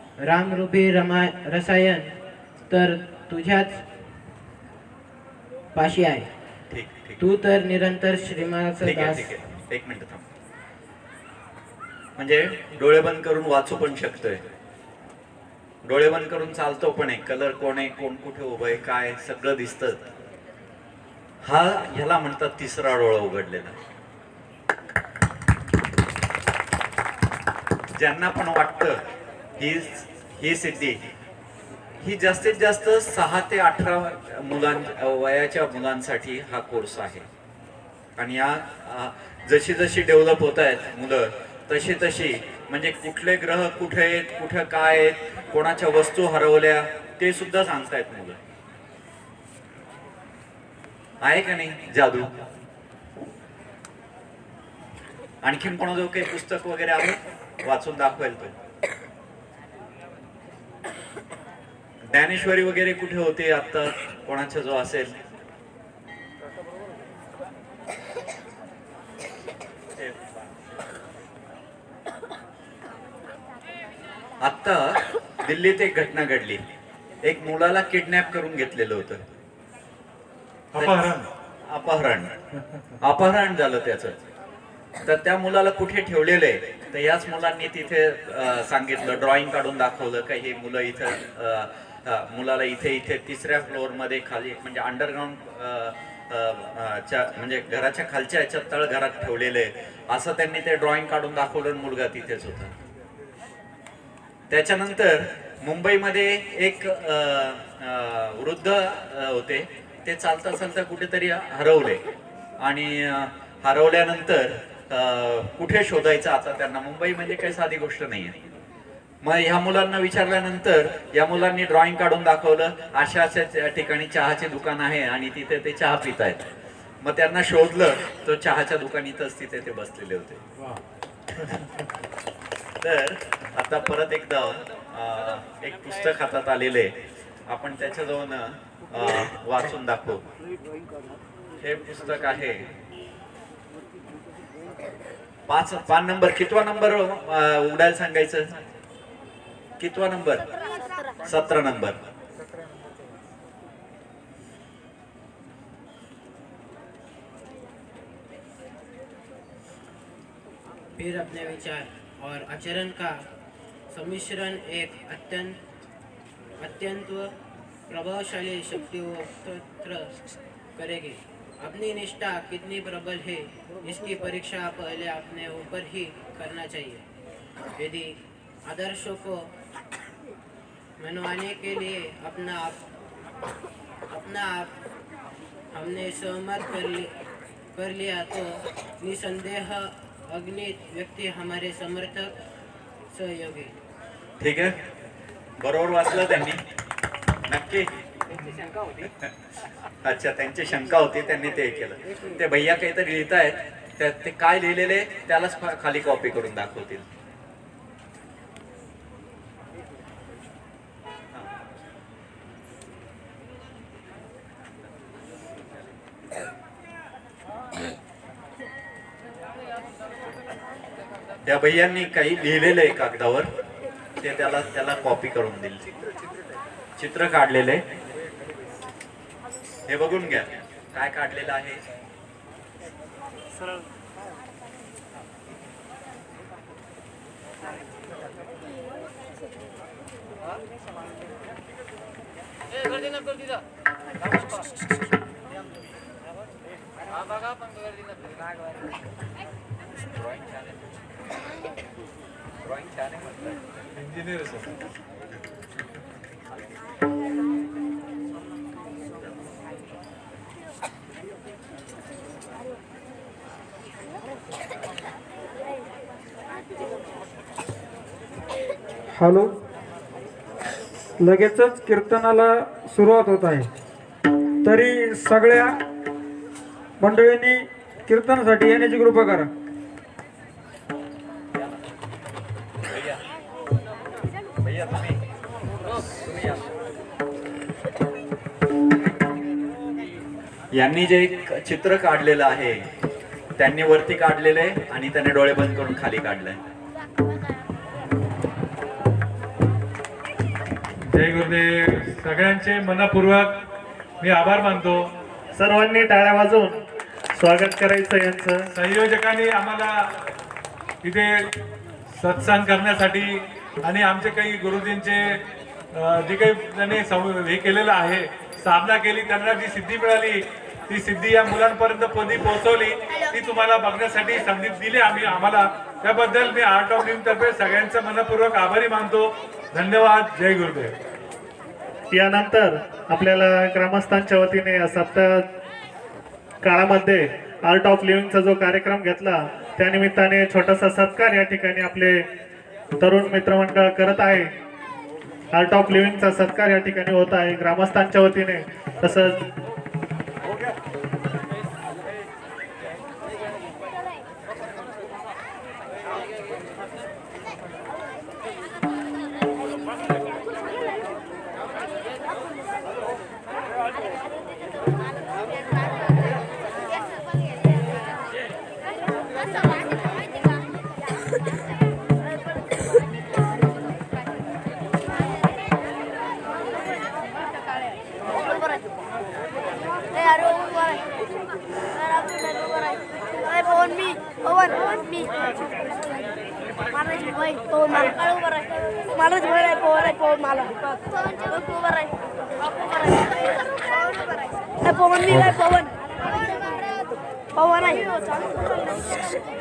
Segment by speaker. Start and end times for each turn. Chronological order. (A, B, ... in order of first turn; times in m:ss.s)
0:00.2-0:02.1 A
0:02.7-0:03.8 A
0:05.8-0:06.3 A
0:06.7-0:07.2 B
0:07.2-0:09.3 A
0:08.8-0:10.3 B
0:12.2-0:14.4 B
0:15.8-0:20.1 B
0:21.4-0:23.8 B
0:28.0-0:29.0 B
0:29.6-0:31.0 B
0:32.0-0:37.3 B
0:38.2-0:48.4 B
0:51.2-0:52.3 B
0:55.4-0:58.5 B
1:02.1-1:05.1 B
1:14.4-1:16.6 B
1:17.2-1:19.2 B
1:20.7-1:21.3 C
1:20.8-1:21.1 B
1:21.7-1:22.3 B
1:23.0-1:24.2 B
1:25.0-1:42.7 B
1:44.5-1:52.0 B
1:52.6-1:58.4 B
1:59.2-2:06.4 B
2:07.0-2:10.4 B
2:11.3-2:11.6 B
2:12.8-2:16.9 B
2:17.5-2:20.2 B
2:21.6-2:22.6 B
2:25.5-2:28.5 B
2:29.8-2:30.6 B
2:31.2-2:32.0 B
2:41.0-2:43.2 A
2:43.9-2:45.6 A
2:46.6-2:47.3 A
2:47.9-2:50.1 A
2:50.8-2:57.0 A
2:57.8-2:58.1 A
2:58.7-2:59.4 A
3:01.0-3:02.8 A
3:04.1-3:04.7 A
3:05.7-3:07.1 A
3:07.8-3:12.4 A
3:13.1-3:13.7 A
3:14.4-3:14.7 B
3:15.6-3:16.6 B
3:17.5-3:17.9 B
3:19.0-3:19.3 B
3:20.0-3:27.0 B
3:41.5-3:43.5 B
3:44.2-3:45.8 B
3:47.0-3:47.8 B
3:49.9-3:51.8 B
4:10.2-4:10.6 B
4:12.7-4:13.3 B
4:14.0-4:14.7 C
4:29.1-4:29.6 D
4:31.2-4:33.7 D
4:34.6-4:35.8 D
4:37.0-4:39.5 D
4:42.9-4:43.2 B
4:44.6-4:45.2 B
4:46.2-4:46.7 B
4:50.7-4:52.8 B
4:53.6-4:56.6 B
5:01.1-5:03.5 C
5:04.2-5:05.1 C
5:05.5-5:06.8 E
5:07.4-5:08.7 E
5:08.7-5:09.9 C
5:11.0-5:11.3 C
5:12.2-5:15.4 C
5:16.0-5:31.0 C
5:32.1-5:35.4 E
5:36.6-5:42.3 E
5:43.0-5:44.5 E
5:45.5-5:49.5 E
6:20.1-6:21.0 F
6:22.0-6:25.6 F
6:26.9-6:30.7 F
6:31.5-6:32.1 F
6:33.0-6:33.2 F
6:34.8-6:35.9 F
6:35.3-6:35.6 D
6:37.6-6:38.7 F